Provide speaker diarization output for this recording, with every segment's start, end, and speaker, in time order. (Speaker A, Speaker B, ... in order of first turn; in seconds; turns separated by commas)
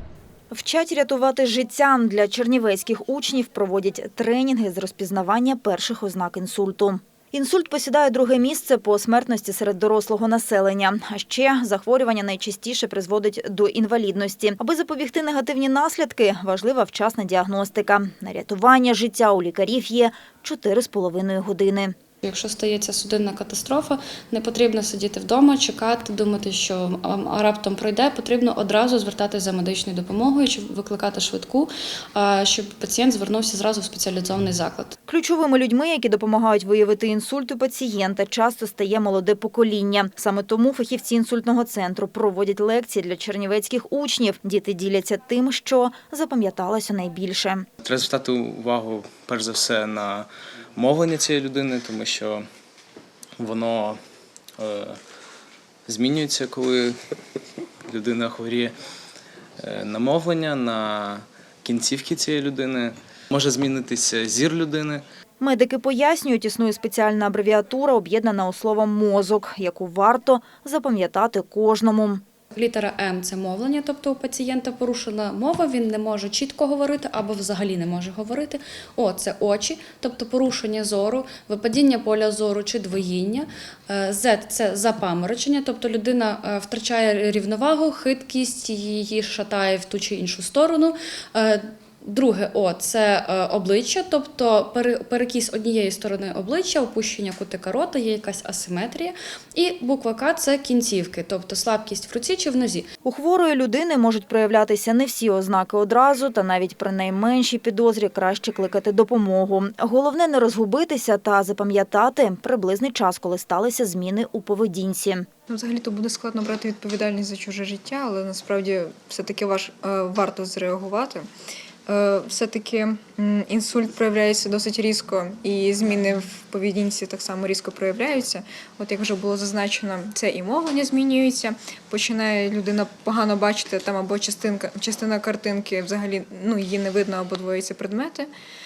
Speaker A: 0.5-21.9, Speaker B: 22.2-35.0, Speaker A: 35.1-47.7, Speaker C: 47.8-52.5, Speaker C: 53.4-54.0, Speaker C: 54.6-55.0, Speaker C: 55.9-57.0, Speaker C: 57.9-58.7, Speaker C: 59.6-65.0, Speaker A: 65.4-72.2, Speaker B: 72.5-102.9, Speaker A: 103.0-115.3, Speaker D: 115.5-121.3, Speaker D: 121.9-138.3